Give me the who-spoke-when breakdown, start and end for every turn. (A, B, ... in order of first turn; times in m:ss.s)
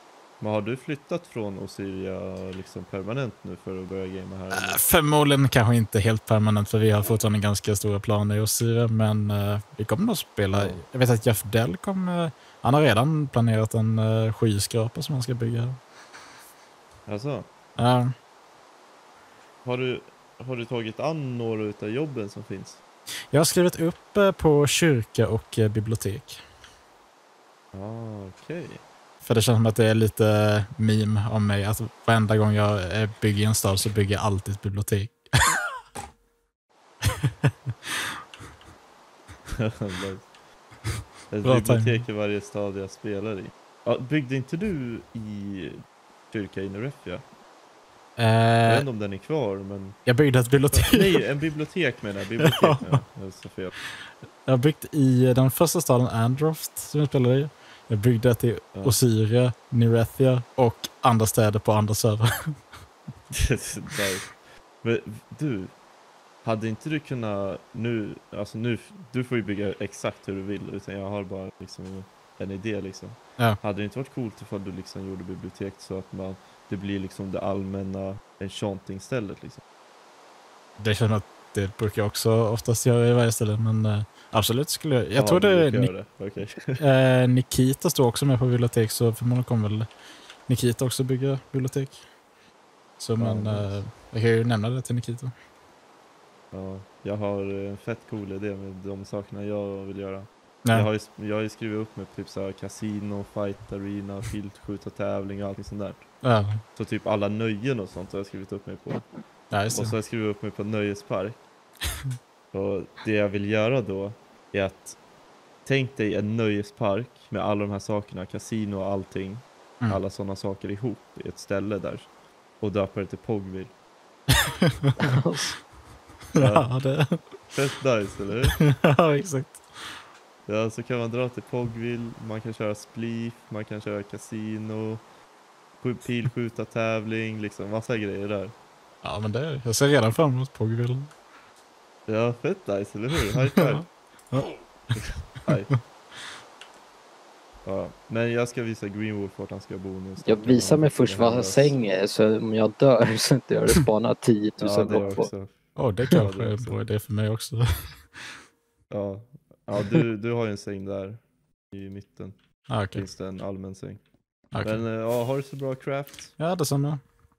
0:00.4-0:04.8 A
0:04.5-0:15.8 B
0:10.5-0:10.8 A
0:17.1-0:17.5 A
0:17.8-0:18.1 B
0:19.6-0:22.8 A
0:23.3-0:26.4 B
0:27.7-0:28.8 A
0:29.2-0:35.7 B
0:39.6-0:40.3 A
0:41.3-0:47.2 A
0:41.4-0:42.0 B
0:48.2-0:48.8 B
0:48.6-0:53.7 A
0:50.0-0:51.1 B
0:52.4-0:53.0 B
0:54.4-1:02.6 B
0:58.7-0:59.0 A
1:03.3-1:05.8 A
1:06.4-1:19.6 A
1:20.8-1:25.9 B
1:25.2-1:26.8 A
1:26.8-1:29.9 B
1:30.5-1:32.0 B
1:33.0-1:35.3 B
1:33.2-1:33.8 A
1:36.5-1:51.4 A
1:46.2-1:46.6 B
1:49.5-1:49.9 B
1:52.5-1:55.0 A
1:55.6-2:03.7 A
2:05.0-2:05.6 C
2:06.3-2:07.4 B
2:06.3-2:08.7 A
2:08.6-2:10.0 B
2:10.5-2:15.1 A
2:15.8-2:18.5 A
2:19.0-2:21.1 B
2:22.1-2:23.9 A
2:23.7-2:24.6 B
2:24.9-2:25.8 A
2:27.6-2:31.8 A
2:30.2-2:35.3 C
2:34.6-2:36.8 A
2:35.8-2:38.3 B
2:38.9-2:46.4 A
2:42.7-2:43.0 B
2:44.5-2:44.8 B
2:46.4-2:47.0 B